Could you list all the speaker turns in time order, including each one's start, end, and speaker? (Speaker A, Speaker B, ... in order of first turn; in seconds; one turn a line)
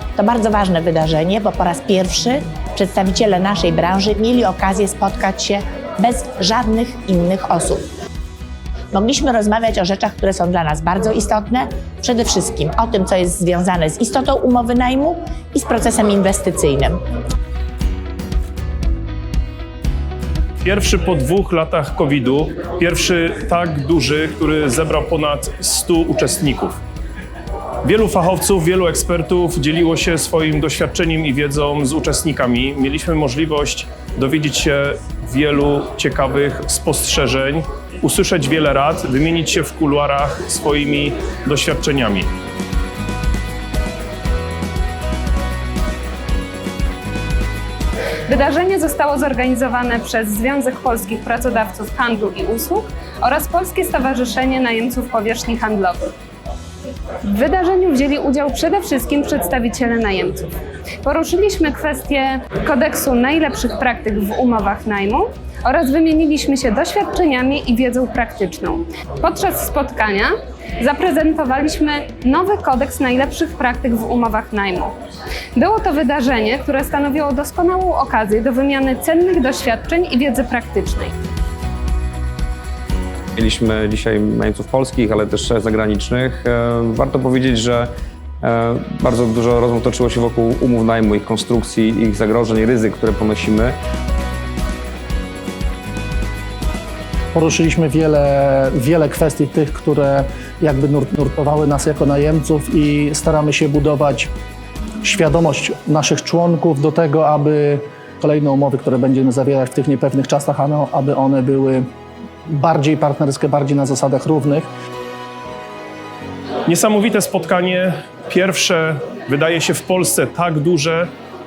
Speaker A: 0.1-7.8
Speaker A: 8.9-17.0
Speaker B: 20.6-26.8
Speaker B: 27.8-42.3
Speaker C: 48.3-56.1
Speaker C: 57.2-60.5
Speaker C: 61.0-74.9
Speaker C: 75.5-81.1
Speaker D: 83.3-87.9
Speaker D: 88.4-93.8
Speaker E: 97.3-104.3
Speaker E: 105.0-111.8
Speaker E: 112.5-114.7
Speaker B: 116.7-121.1